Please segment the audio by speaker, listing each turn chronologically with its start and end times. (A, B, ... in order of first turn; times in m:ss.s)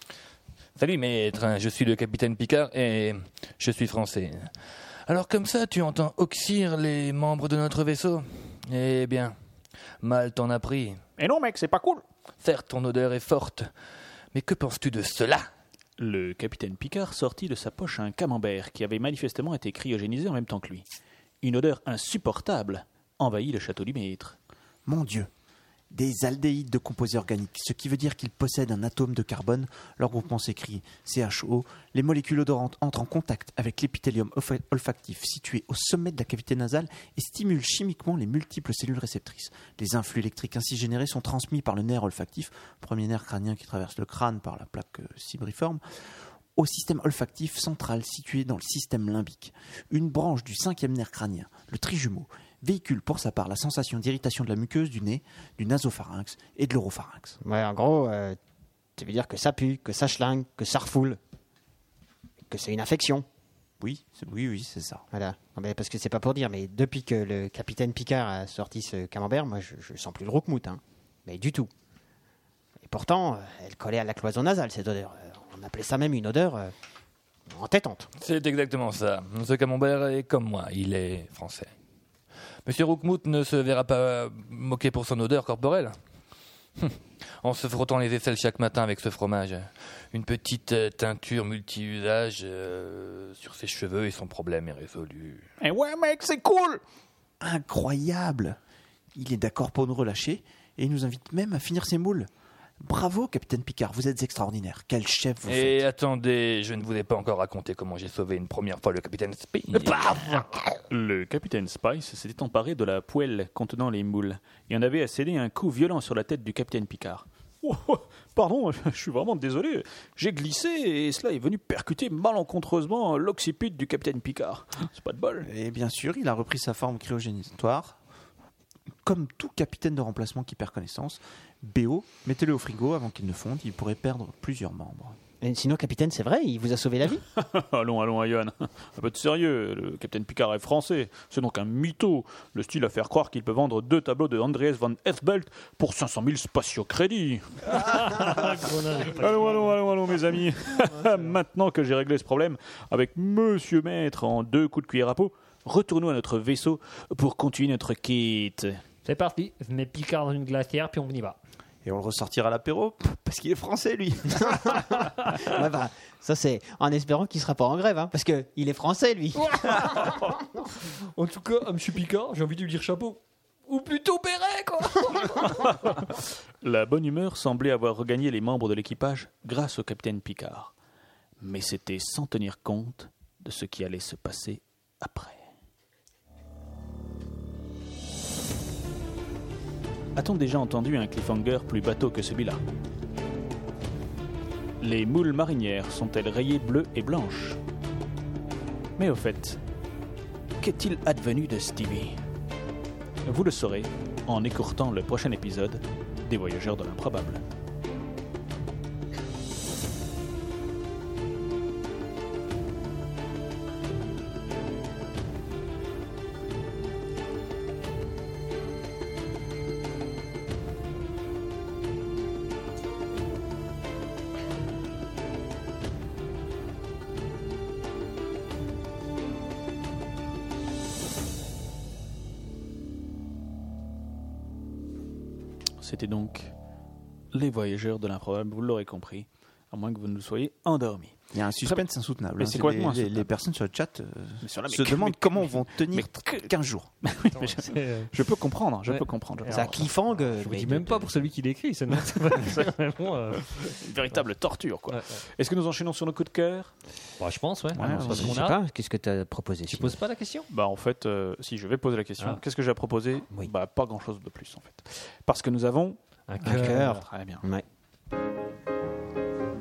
0:00.8-0:04.5 A
0:05.1-0:09.4 A
0:10.0-0:11.0 A
0:11.2-0:12.0 B
0:12.4-0:13.7 A
0:14.3-0:15.5 A
0:16.0-0:20.9 B
0:21.4-0:24.4 B
0:24.9-0:25.3 C
0:25.9-0:57.4 C
0:57.4-0:58.4 D
0:59.0-1:01.2 D
1:02.5-1:03.3 D
1:03.8-1:05.0 C
1:05.1-1:11.7 D
1:12.8-1:16.7 D
1:17.5-1:18.1 D
1:18.2-1:21.7 A
1:22.6-1:26.0 A
1:26.8-1:35.4 A
1:35.6-1:36.8 B
1:37.4-1:38.6 C
1:39.1-1:42.3 C
1:42.8-1:45.8 C
1:45.5-1:50.4 A
1:50.0-1:50.4 E
1:50.9-2:05.5 B
2:05.4-2:08.0 C
2:09.0-2:15.2 C
2:15.4-2:17.2 D
2:17.4-2:38.8 B
2:27.7-2:29.8 E
2:39.0-2:41.4 E
2:41.8-2:44.9 C
2:44.4-2:50.4 D
2:49.5-2:50.2 E
2:51.0-2:55.9 E
2:55.7-3:00.7 B
3:01.4-3:05.5 B
3:10.2-3:12.6 B
3:14.8-3:17.6 B
3:19.0-3:19.6 B
3:20.6-3:22.2 B
3:23.2-3:27.4 B
3:55.8-3:56.5 B
3:57.3-4:01.8 B
4:01.3-4:06.9 C
4:02.4-4:03.3 B
4:04.4-4:09.9 B
4:07.3-4:08.1 E
4:08.9-4:14.2 E
4:09.5-4:11.1 D
4:12.4-4:12.7 B
4:13.4-4:16.7 B
4:14.9-4:15.2 E
4:17.2-4:18.6 E
4:17.7-4:18.4 C
4:17.9-4:20.0 D
4:19.7-4:20.5 E
4:20.5-4:26.0 B
4:26.3-4:27.0 E
4:26.4-4:27.6 D
4:26.5-4:27.4 B